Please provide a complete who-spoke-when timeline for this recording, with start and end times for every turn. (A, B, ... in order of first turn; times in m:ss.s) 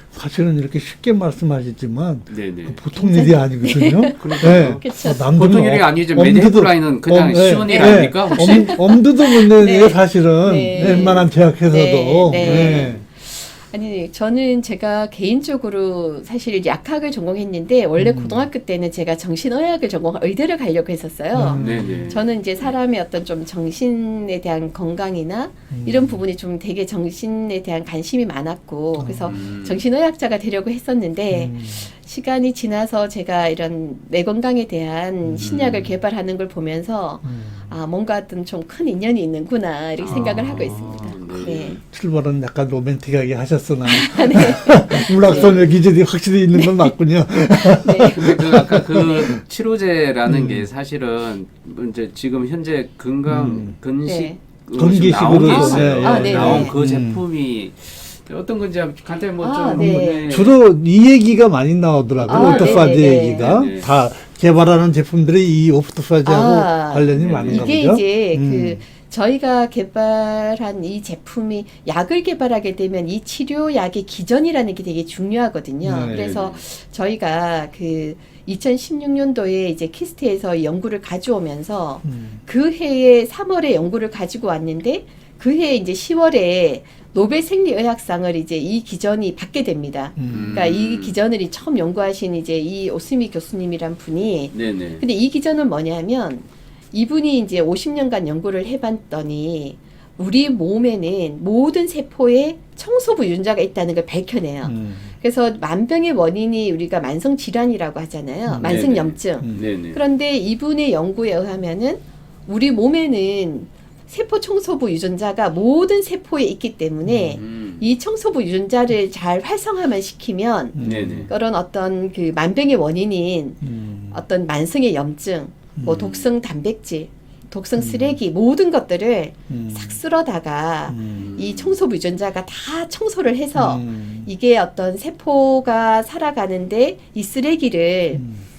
0:00.1-0:13.0 A
0:02.3-0:02.8 B
0:02.9-0:05.2 C
0:04.2-0:08.9 B
0:07.7-0:41.8 C
0:12.3-0:12.8 B
0:18.0-0:18.5 A
0:21.3-0:22.2 A
0:21.6-0:22.6 B
0:25.7-0:26.2 A
0:29.0-0:29.3 A
0:29.3-0:29.8 B
0:31.3-0:31.9 A
0:35.2-0:35.5 A
0:35.4-0:35.9 B
0:37.2-0:37.7 A
0:40.0-0:41.8 B
0:40.1-0:40.7 A
0:41.8-0:49.4 A
0:43.8-0:45.8 C
0:46.5-0:46.9 C
0:47.5-0:49.3 C
0:48.1-1:00.6 B
0:50.3-0:50.6 A
0:53.3-0:53.8 A
0:54.0-0:54.4 C
0:54.8-0:57.2 A
0:55.3-0:56.7 C
0:59.4-1:00.3 C
0:59.7-1:08.8 A
1:02.2-1:03.9 B
1:02.3-1:03.6 C
1:06.2-2:00.8 C
1:07.1-1:07.8 B
1:15.8-1:16.4 A
1:16.1-1:16.6 B
1:22.0-1:22.4 A
1:30.2-1:30.6 A
1:30.3-1:31.1 B
1:34.5-1:35.0 B
1:44.6-1:45.1 A
1:48.5-1:48.8 A
1:48.6-1:50.0 B
1:49.4-1:49.7 A
1:57.0-1:57.4 A
1:57.4-1:57.9 B
2:00.7-2:01.3 A
2:00.8-2:01.3 B
2:01.3-2:18.2 C
2:03.6-2:04.2 A
2:05.8-2:06.1 A
2:05.9-2:06.2 B
2:07.8-2:08.2 A
2:09.5-2:10.0 A
2:10.9-2:11.3 A
2:11.2-2:11.8 B
2:13.5-2:14.3 A
2:18.1-2:18.4 A